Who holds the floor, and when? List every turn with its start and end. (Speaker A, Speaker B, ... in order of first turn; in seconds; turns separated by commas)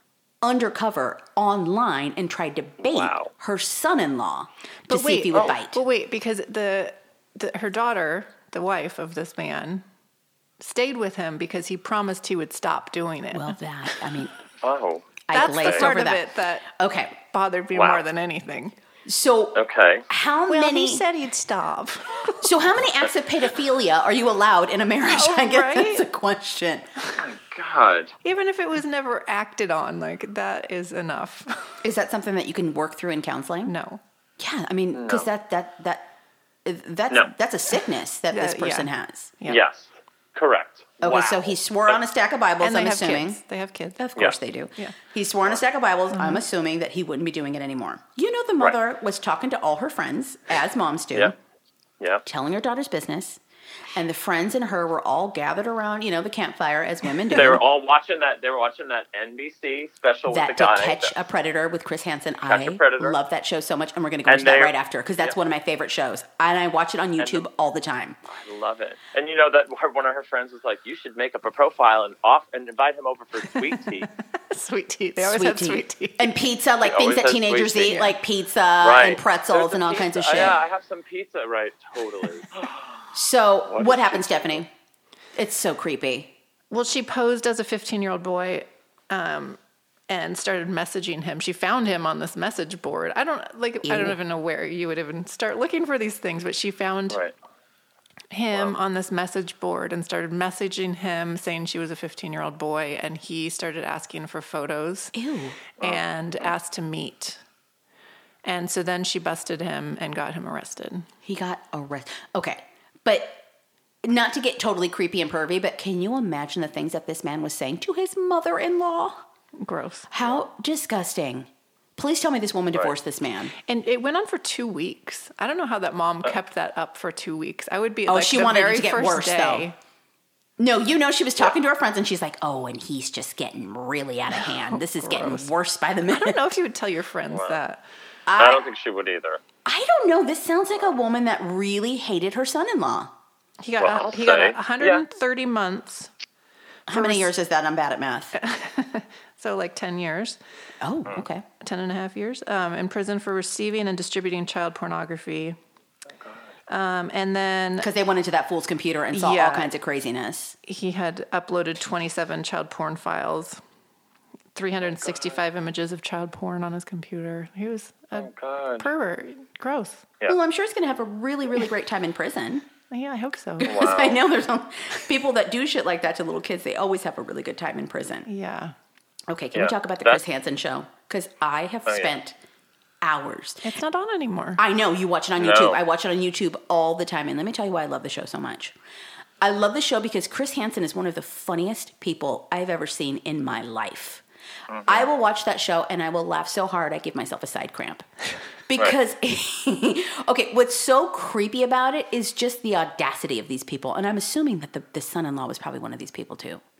Speaker A: 0.4-5.8, Speaker B: 2.8-3.3, Speaker C: 4.9-9.8, Speaker C: 10.6-14.2, Speaker A: 13.3-14.3, Speaker B: 14.6-15.9, Speaker A: 15.3-17.2, Speaker C: 15.3-16.7, Speaker C: 17.2-18.7, Speaker B: 17.7-18.0, Speaker A: 19.1-21.0, Speaker B: 19.5-20.1, Speaker C: 20.5-22.6, Speaker A: 22.4-26.9, Speaker C: 25.1-26.1, Speaker B: 27.2-28.1, Speaker C: 28.2-31.8, Speaker A: 31.8-33.7, Speaker C: 33.6-34.0, Speaker A: 34.4-36.1, Speaker B: 34.9-35.3, Speaker A: 36.6-39.3, Speaker C: 38.3-39.6, Speaker B: 39.5-42.0, Speaker A: 41.0-43.4, Speaker C: 42.6-44.0, Speaker A: 44.0-51.4, Speaker C: 46.1-46.4, Speaker A: 52.2-53.4, Speaker A: 54.0-57.6, Speaker B: 57.3-61.1, Speaker A: 60.3-68.2, Speaker B: 62.5-63.2, Speaker B: 64.3-65.3, Speaker B: 67.2-67.5, Speaker B: 68.3-74.1, Speaker C: 73.5-76.3, Speaker A: 75.2-80.6, Speaker B: 76.8-78.1, Speaker C: 77.8-78.1, Speaker B: 78.8-83.1, Speaker A: 83.1-84.7, Speaker B: 83.7-84.6, Speaker A: 85.3-86.3, Speaker C: 86.7-97.2, Speaker A: 93.8-94.2, Speaker C: 98.3-105.1, Speaker A: 105.1-105.6, Speaker B: 105.8-106.5, Speaker C: 105.8-107.4, Speaker C: 108.4-111.1, Speaker A: 111.2-113.4, Speaker A: 114.0-119.2, Speaker C: 119.6-120.1, Speaker A: 120.1-123.5, Speaker C: 123.7-129.8, Speaker A: 128.1-129.7, Speaker A: 130.6-136.5, Speaker C: 134.4-135.5, Speaker C: 136.1-137.8, Speaker B: 137.3-137.6, Speaker A: 138.3-138.6, Speaker B: 138.4-139.4, Speaker A: 139.6-143.1, Speaker C: 143.6-146.1, Speaker B: 143.8-145.0, Speaker A: 146.9-148.3, Speaker C: 146.9-147.3, Speaker C: 148.3-150.4, Speaker A: 150.8-151.4, Speaker C: 151.6-155.6, Speaker C: 156.7-157.9, Speaker A: 157.8-160.6, Speaker C: 159.1-159.7, Speaker C: 160.6-163.6, Speaker C: 164.5-170.1, Speaker B: 164.9-165.4, Speaker B: 168.1-168.9, Speaker A: 170.2-172.7, Speaker C: 172.9-173.9, Speaker A: 173.6-178.3, Speaker B: 173.7-174.2, Speaker C: 178.2-178.7, Speaker A: 179.3-182.3, Speaker B: 179.5-180.2, Speaker B: 181.8-182.1, Speaker A: 183.0-183.6, Speaker C: 183.6-184.6, Speaker A: 184.6-188.7, Speaker B: 185.4-185.8, Speaker A: 189.4-194.2, Speaker B: 194.7-195.1, Speaker A: 194.8-198.1, Speaker A: 198.7-206.6